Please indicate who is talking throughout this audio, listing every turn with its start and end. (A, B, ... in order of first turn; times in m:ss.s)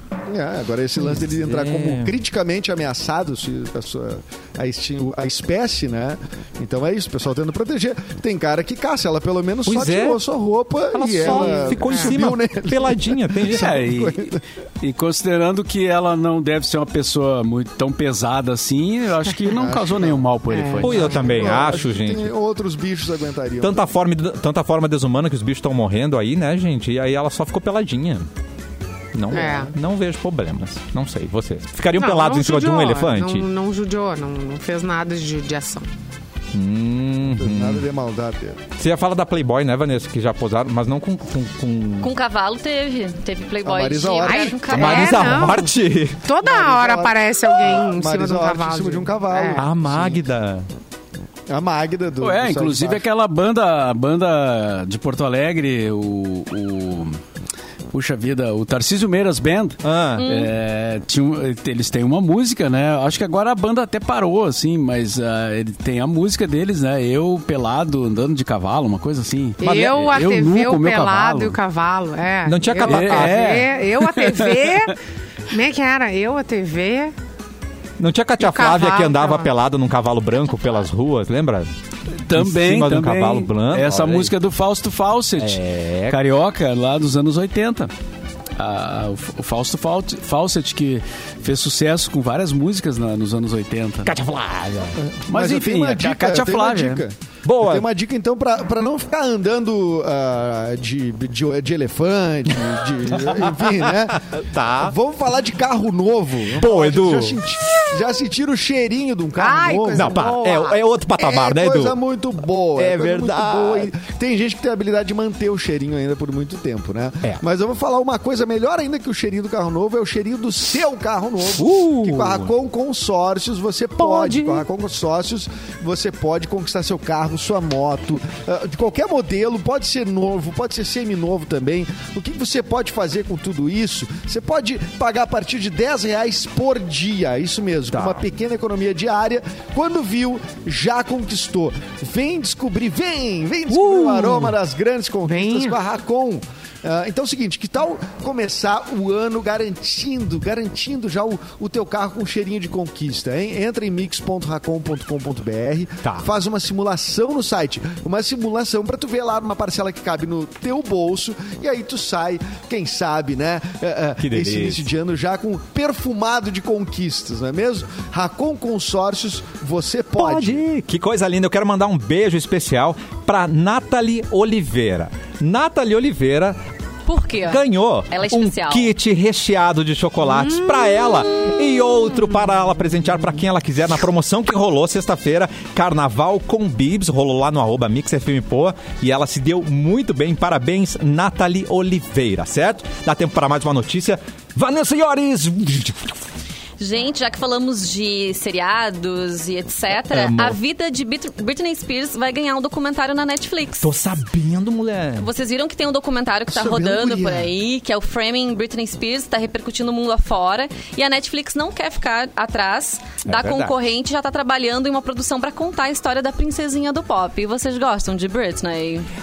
0:00.3-0:14.4 A
0:01.0-0:02.2 B
0:09.7-0:10.2 B
0:10.9-0:13.8 B
0:11.2-0:12.2 C
0:13.5-0:14.2 D
0:14.8-0:21.2 D
0:19.5-0:20.2 A
0:20.5-0:21.5 C
0:20.8-0:22.3 B
0:21.0-0:23.8 A
0:23.6-0:28.3 B
0:29.1-0:33.5 B
0:29.3-0:29.7 C
0:29.3-0:29.6 A
0:32.0-0:35.9 C
0:36.5-0:37.9 B
0:37.4-0:38.6 A
0:38.8-0:42.1 B
0:42.0-0:45.2 E
0:43.6-0:45.4 A
0:44.2-0:45.7 C
0:44.7-0:46.2 B
0:46.2-0:49.7 C
0:46.4-0:50.2 A
0:49.6-0:50.7 B
0:51.5-0:53.0 A
0:52.2-0:57.2 D
0:57.9-1:11.6 D
0:59.8-1:00.2 B
1:00.2-1:00.5 E
1:09.6-1:15.0 C
1:12.4-1:13.6 B
1:12.9-1:15.0 D
1:15.5-1:17.1 C
1:18.0-1:21.7 B
1:18.4-1:19.5 C
1:22.2-1:27.9 D
1:22.3-1:24.3 B
1:25.4-1:26.2 B
1:28.6-1:34.1 D
1:34.0-1:35.0 B
1:35.0-1:44.2 A
1:35.3-1:37.0 D
1:37.4-1:37.9 B
1:43.1-1:45.0 B
1:44.8-1:50.2 A
1:46.6-1:47.4 B
1:49.4-1:50.8 C
1:50.0-1:52.0 B
1:51.2-2:50.6 A
1:52.8-1:53.9 B
2:01.5-2:02.5 B
2:04.0-2:04.7 B
2:17.9-2:18.2 B
2:23.7-2:24.6 B
2:25.3-2:25.8 C
2:44.2-2:44.8 B
2:50.2-2:56.6 B
2:57.1-2:58.9 E
2:57.4-3:16.2 B
3:16.8-3:23.9 E
3:20.1-3:20.6 B
3:23.8-3:25.3 B
3:25.2-3:39.1 E
3:26.5-3:27.5 A
3:33.2-3:33.8 B